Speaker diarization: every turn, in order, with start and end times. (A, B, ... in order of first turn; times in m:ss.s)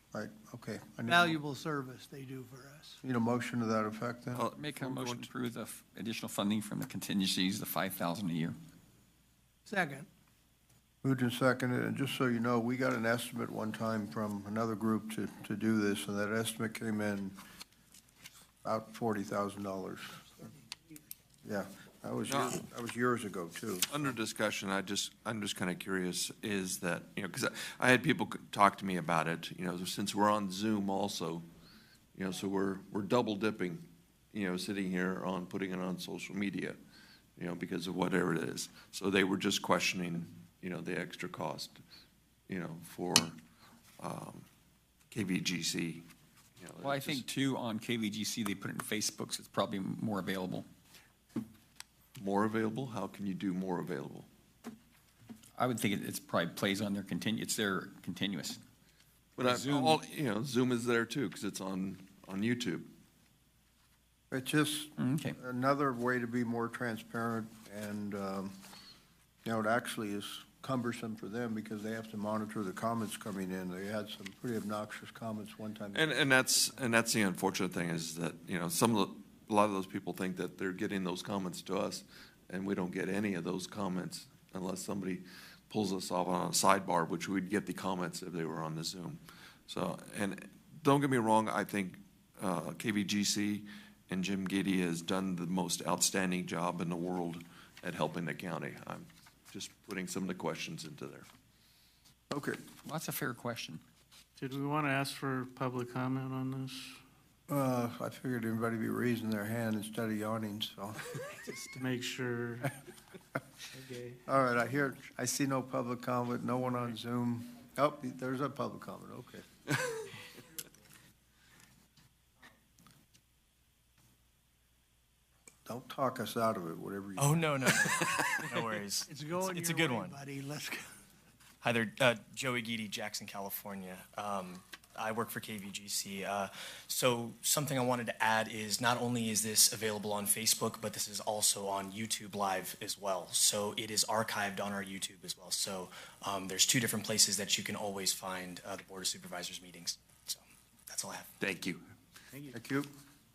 0:00.1-0:01.4 A
0:01.1-0:03.0 B
0:03.0-0:04.5 A
0:04.3-0:05.3 C
0:04.5-0:08.6 D
0:09.7-0:10.1 B
0:11.0-0:17.4 A
0:18.6-0:20.3 A
0:21.4-0:23.9 A
0:22.3-0:22.6 C
0:23.9-0:31.5 C
0:32.2-0:36.8 C
0:37.4-0:41.8 C
0:42.5-0:43.4 C
0:44.0-0:44.5 C
0:45.1-0:46.1 C
0:46.6-0:47.3 C
0:46.8-0:50.7 D
0:52.2-0:54.3 C
0:55.6-0:58.6 D
0:59.4-1:02.9 C
0:59.4-1:00.0 D
1:04.3-1:08.6 A
1:05.0-1:05.4 D
1:09.4-1:16.5 A
1:15.9-1:41.3 C
1:42.3-1:42.6 A
1:42.8-1:43.8 D
1:44.4-1:47.0 E
1:47.5-1:51.0 A
1:51.3-1:52.8 E
1:53.7-1:54.3 E
1:54.3-1:59.4 A
2:05.7-2:08.0 A
2:07.2-2:10.1 F
2:09.1-2:10.9 B
2:11.6-2:31.3 F
2:31.4-2:31.8 C
2:32.5-2:32.9 A